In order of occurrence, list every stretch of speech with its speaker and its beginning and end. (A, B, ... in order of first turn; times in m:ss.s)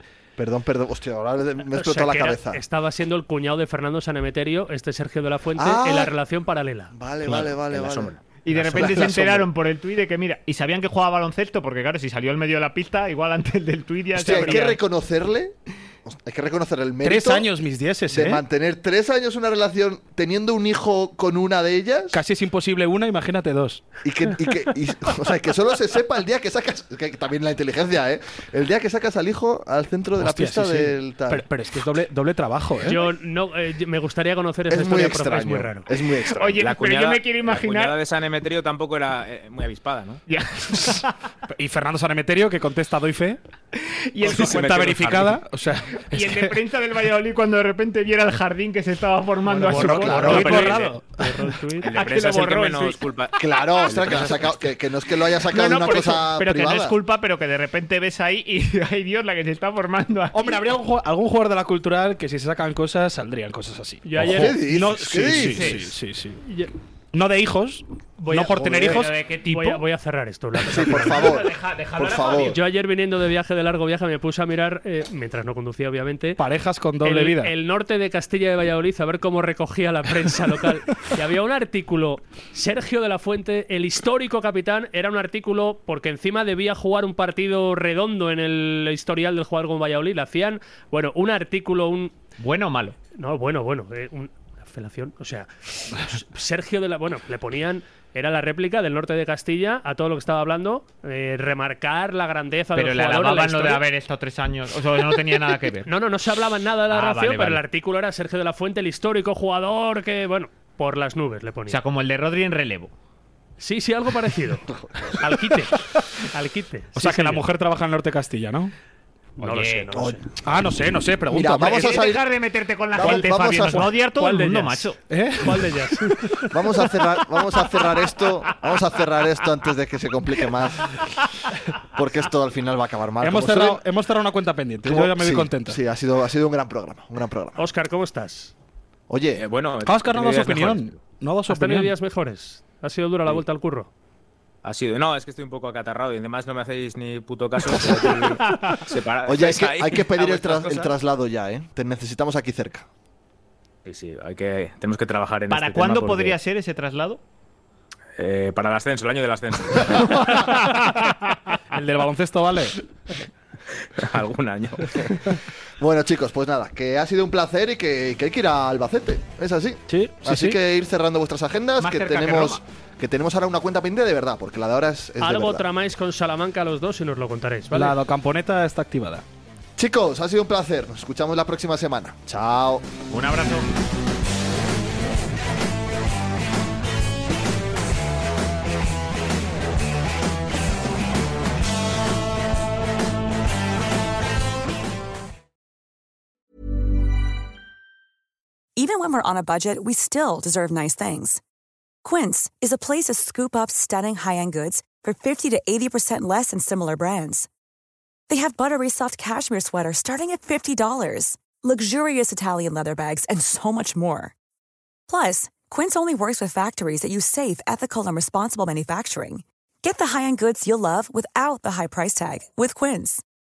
0:00.4-0:02.6 A
0:01.7-0:06.9 B
0:05.6-0:06.1 A
0:06.9-0:08.1 A
0:07.2-0:09.4 C
0:08.4-0:14.8 D
0:08.7-0:09.4 A
0:14.1-0:17.5 A
0:14.3-0:14.8 E
0:17.0-0:18.4 E
0:18.1-0:22.2 A
0:22.1-0:23.9 E
0:24.0-0:31.4 A
0:30.2-0:33.1 E
0:32.9-0:35.9 B
0:34.7-0:36.6 A
0:36.3-0:38.0 D
0:36.6-0:40.2 C
0:40.3-0:41.1 D
0:41.5-0:43.4 E
0:43.7-0:45.0 D
0:44.2-0:45.4 C
0:44.3-0:46.6 E
0:46.1-0:50.8 D
0:49.5-0:51.6 E
0:49.7-0:51.9 B
0:49.8-0:50.6 A
0:51.8-0:54.6 C
0:51.9-0:53.0 D
0:53.4-0:57.0 A
0:55.5-1:00.6 D
1:00.3-1:06.4 E
1:04.0-1:04.6 B
1:04.2-1:05.9 A
1:05.3-1:05.9 D
1:06.4-1:06.7 B
1:07.1-1:09.1 E
1:08.2-1:09.8 D
1:08.5-1:09.0 A
1:09.5-1:11.4 B
1:10.7-1:12.6 A
1:10.9-1:12.6 D
1:12.4-1:16.4 B
1:16.4-1:17.5 E
1:17.0-1:32.1 B
1:32.4-1:33.0 D
1:33.1-1:43.8 B
1:42.8-1:45.9 D
1:45.9-1:51.8 B
1:46.9-1:47.6 D
1:51.7-1:52.9 D
1:53.6-1:57.4 B
1:57.0-1:58.7 E
1:59.4-2:00.2 B
1:59.4-2:00.0 D
1:59.9-2:00.2 A
2:00.4-2:02.0 E
2:01.3-2:02.2 A
2:01.6-2:05.0 D
2:02.9-2:03.9 A
2:04.2-2:06.4 B
2:05.1-2:06.4 E
2:06.5-2:11.0 A
2:11.9-2:13.8 A
2:13.2-2:15.8 E
2:14.8-2:17.6 A
2:17.6-2:18.5 B
2:19.1-2:19.4 A
2:19.4-2:21.1 C
2:19.8-2:21.9 E
2:21.5-2:23.9 B
2:24.6-2:30.9 C
2:28.5-2:28.8 D
2:29.3-2:32.9 A
2:33.8-2:36.4 C
2:35.5-2:37.2 D
2:38.2-2:40.3 C
2:40.4-2:40.9 D
2:41.7-2:42.7 E
2:44.0-2:45.3 C
2:45.8-2:55.7 A
2:49.9-2:50.6 E
2:51.8-2:52.6 D
2:55.2-2:58.0 B
2:57.7-2:59.2 E
2:59.8-3:02.9 A
3:03.1-3:03.7 D
3:18.8-3:21.4 F
3:22.0-3:27.5 F
3:28.3-3:34.3 F
3:35.1-3:43.2 F